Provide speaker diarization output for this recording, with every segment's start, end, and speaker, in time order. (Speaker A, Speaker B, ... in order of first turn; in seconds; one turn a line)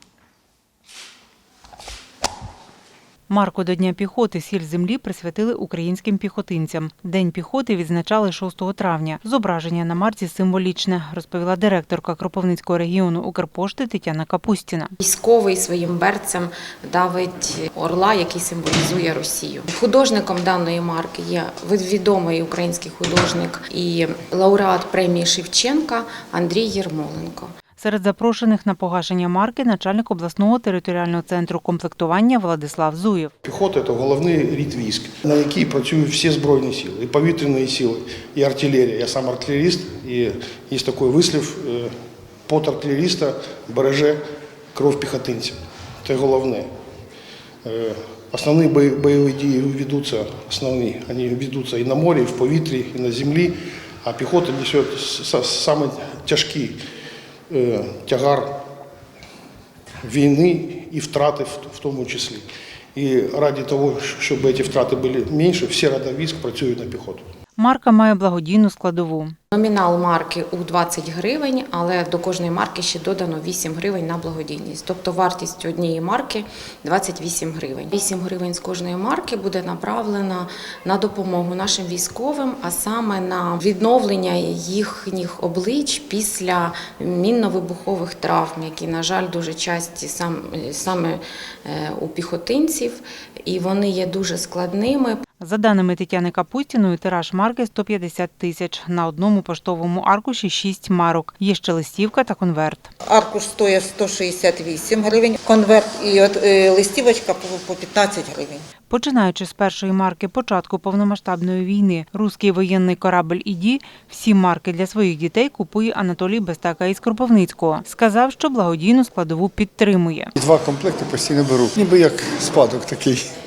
Speaker A: 3.3-14.9
Speaker B: 15.0-27.5
Speaker A: 27.8-33.3
Speaker C: 33.4-41.9
Speaker C: 42.5-44.2
Speaker C: 44.7-46.7
Speaker C: 47.6-56.8
Speaker C: 57.5-58.6
Speaker C: 60.0-62.4
Speaker C: 63.0-67.2
Speaker A: 67.6-69.3
Speaker B: 69.5-95.2
Speaker A: 95.4-102.9
Speaker D: 103.1-108.7
Speaker A: 108.9-120.3
Speaker E: 120.4-123.3